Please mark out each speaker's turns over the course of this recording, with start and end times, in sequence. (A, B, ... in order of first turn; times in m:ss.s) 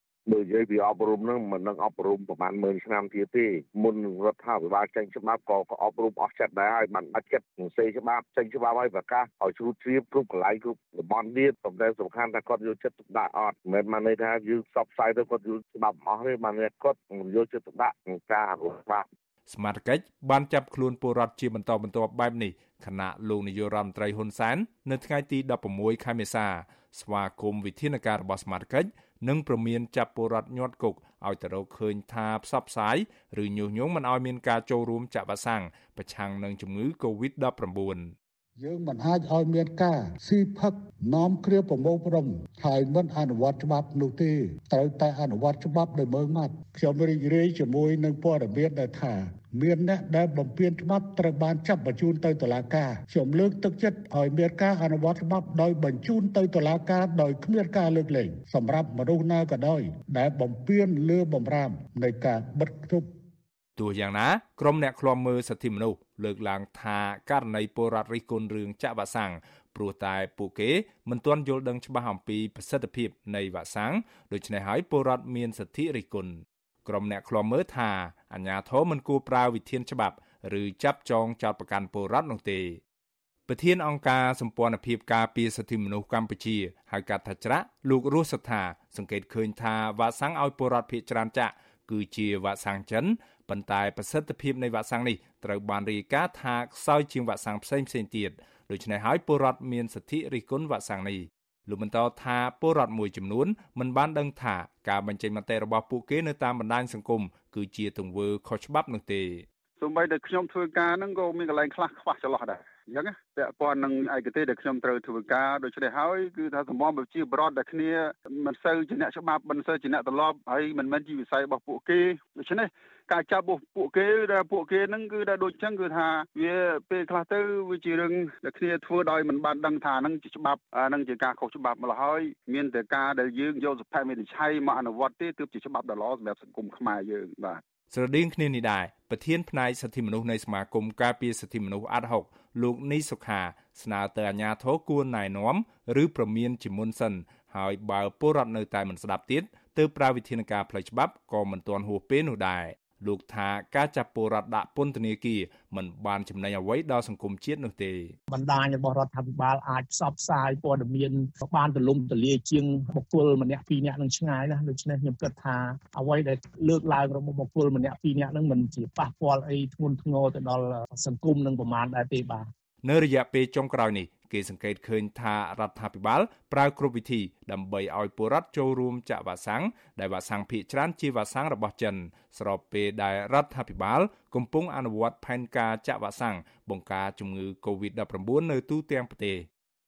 0:00.3-0:19.1 A
0:19.5-0:38.1 B
0:38.6-1:03.1 C
1:03.8-1:22.8 B
1:23.5-1:49.4 B
1:49.8-2:17.6 D
2:17.9-2:38.1 B
2:38.3-2:52.5 E
2:52.8-3:09.5 B